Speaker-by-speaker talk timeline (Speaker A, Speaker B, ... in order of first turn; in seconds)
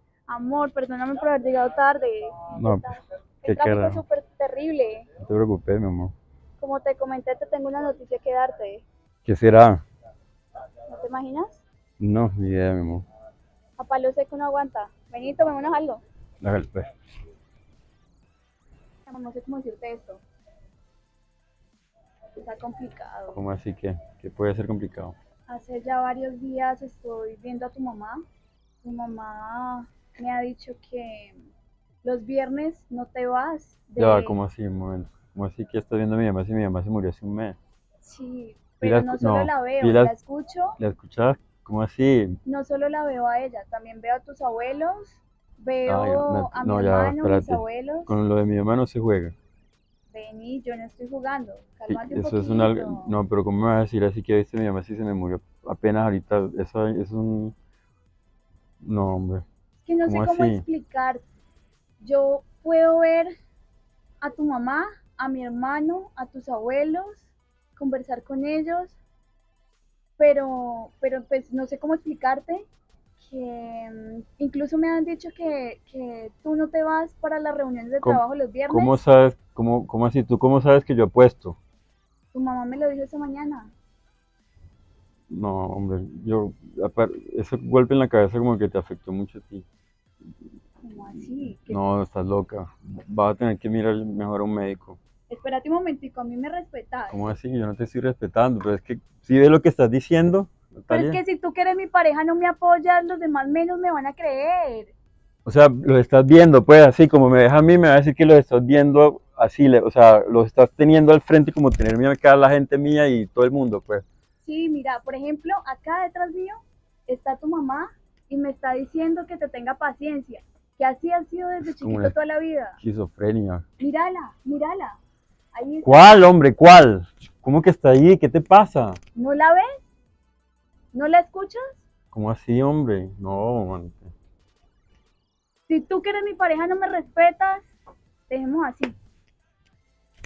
Speaker A: 0.3-5.1, 6.6-8.8, 10.9-11.6, 13.8-16.0, 19.1-20.2, 22.4-23.4, 25.5-28.2, 28.8-31.4, 32.0-34.4, 38.0-40.8, 42.5-48.2, 50.1-53.1, 59.8-61.2, 62.0-63.3, 64.2-69.0, 70.2-72.7, 73.2-79.0, 82.3-83.7, 90.8-91.8, 95.3-97.2, 100.9-104.9, 114.4-122.8, 123.8-125.0, 125.5-126.2, 129.2-129.8, 130.9-131.8, 135.7-137.7, 138.3-138.9
Speaker B: 2.5-4.0, 5.2-6.1, 9.2-9.8, 12.0-13.1, 16.4-16.9, 23.3-25.1, 34.0-37.5, 38.8-40.1, 40.8-42.4, 45.9-49.3, 51.9-57.5, 58.8-59.4, 60.0-60.6, 78.0-81.6, 85.3-89.6, 91.7-95.0, 97.1-101.2, 105.5-114.0, 121.6-122.1, 122.8-123.6, 125.8-129.0, 132.1-134.1